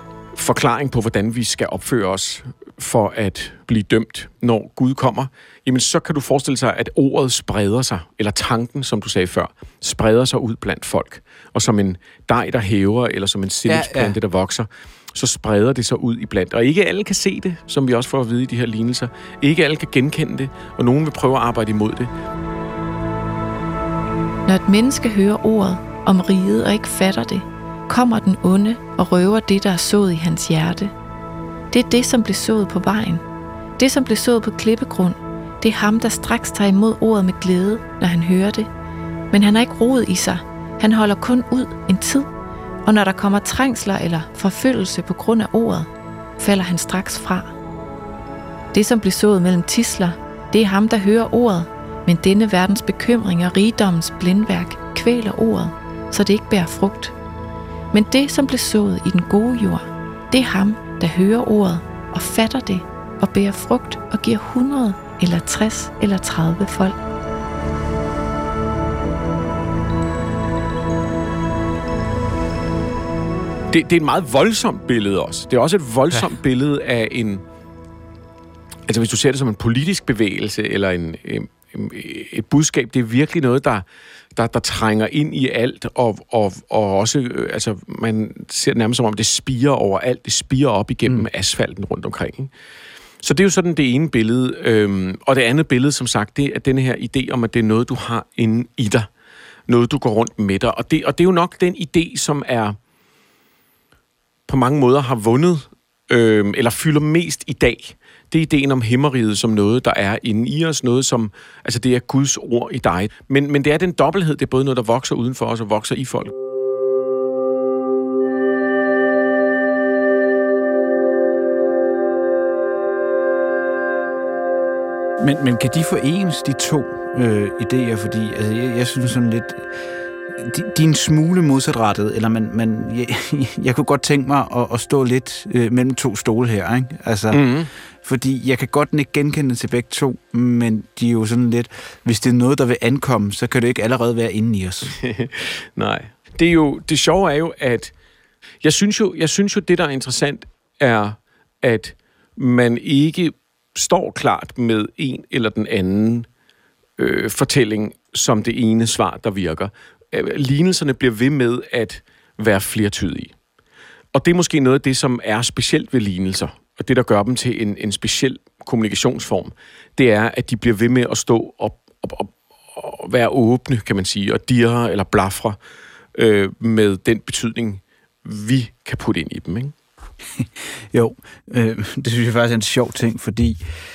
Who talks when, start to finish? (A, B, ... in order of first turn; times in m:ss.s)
0:00.3-0:22.1 A
0:13.7-0:14.2 B
0:24.5-0:30.9 C
0:31.7-0:33.2 C
0:33.8-0:38.7 C
0:39.3-0:42.3 C
0:42.8-0:47.5 C
0:48.7-0:57.2 C
0:57.9-1:07.0 C
1:13.7-1:17.4 A
1:18.9-1:23.8 A
1:24.4-1:32.5 A
1:33.2-1:39.1 A
1:39.7-1:42.8 A
1:44.5-1:56.3 A
2:05.2-2:09.7 B
2:10.3-2:17.4 B
2:17.3-2:17.7 A
2:18.0-2:25.0 B
2:24.9-2:27.9 A
2:28.6-2:36.3 A
2:37.0-2:43.3 A
2:44.1-2:55.6 A
2:56.2-2:59.7 A
3:00.4-3:03.6 B